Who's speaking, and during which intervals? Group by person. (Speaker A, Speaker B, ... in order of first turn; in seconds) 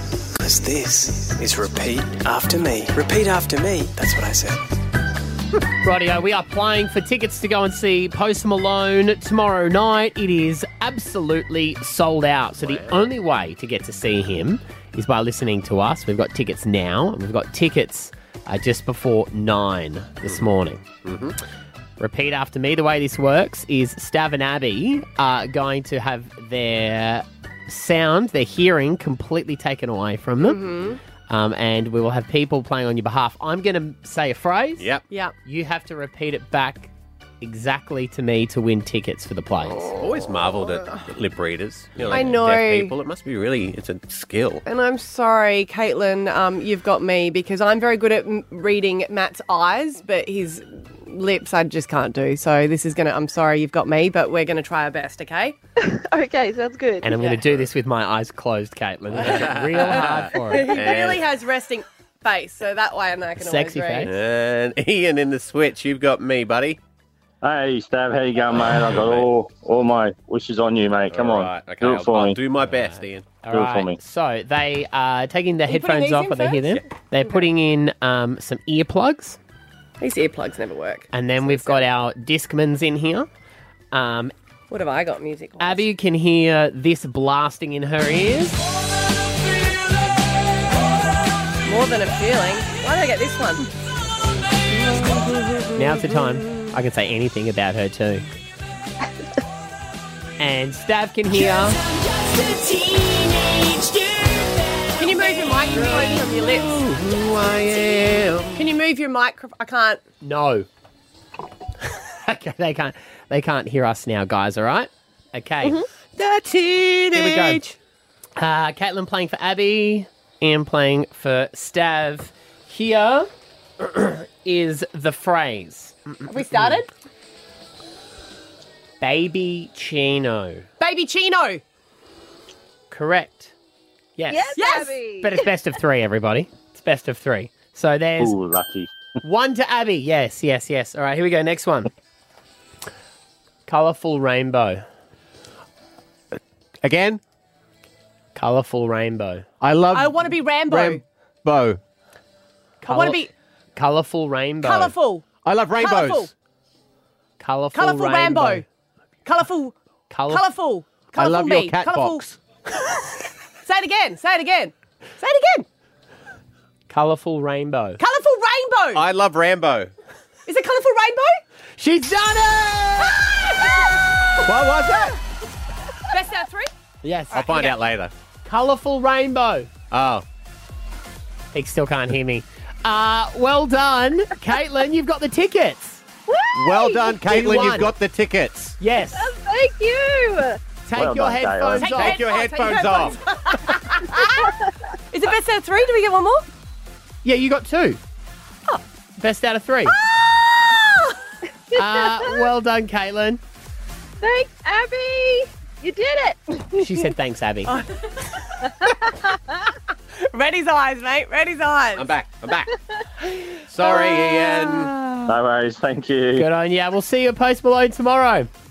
Speaker A: 0.4-4.7
Speaker B: 5.8-20.9, 22.0-30.6, 31.3-34.9, 35.4-39.9, 57.0-60.8, 63.4-64.1, 72.6-79.4, 81.1-83.3, 83.9-84.3, 85.6-88.6, 95.8-98.3, 100.4-101.8, 110.2-110.7, 111.9-117.7, 118.4-123.3, 123.8-126.8, 129.0-130.7, 132.9-133.5, 134.2-138.4, 139.2-141.9, 143.7-144.8, 148.3-149.5, 152.8-153.2, 153.8-154.9, 157.4-158.6, 160.1-160.4, 166.9-168.0, 171.8-173.2, 177.0-177.6, 178.4-179.7, 181.5-186.0, 187.3-187.9, 188.8-189.3, 190.9-192.2, 197.2-198.0, 199.2-199.9, 201.7-203.4, 206.8-207.8, 216.4-218.5
Speaker C: 12.6-13.1, 21.0-21.4, 34.8-35.0, 39.9-44.6, 59.2-61.2, 64.0-66.8, 68.5-69.3, 71.1-73.3, 105.7-108.7, 117.1-117.6, 146.8-147.2, 149.6-151.8, 155.4-156.3, 161.2-162.4, 168.9-169.9, 174.4-175.2, 177.3-178.1, 179.9-180.2, 186.5-188.8, 191.8-193.2, 211.9-212.7, 213.7-214.9
Speaker D: 30.4-31.0, 39.8-41.0, 42.1-42.9, 44.6-55.6, 59.2-64.1, 75.7-76.6, 80.0-81.9, 84.7-85.8, 91.7-93.7, 94.7-96.7, 105.0-106.8, 108.5-110.0, 126.3-126.9, 130.8-131.6, 134.6-135.0, 149.9-151.0, 152.8-153.3, 154.6-155.3, 155.8-156.3, 157.7-158.7, 159.2-159.8, 160.3-162.2, 163.7-165.7, 168.0-169.0, 170.5-171.4, 176.1-176.7, 177.4-177.7, 187.3-187.9, 191.8-194.5, 195.1-196.5, 200.7-201.0, 207.7-207.9, 210.2-212.1, 213.8-215.3
Speaker E: 55.8-57.4, 134.3-135.4, 186.3-187.3, 189.0-190.6, 202.0-202.3, 204.2-206.5, 208.8-209.1
Speaker F: 67.4-72.4, 73.5-74.0, 138.2-138.9, 190.9-191.9, 215.3-216.5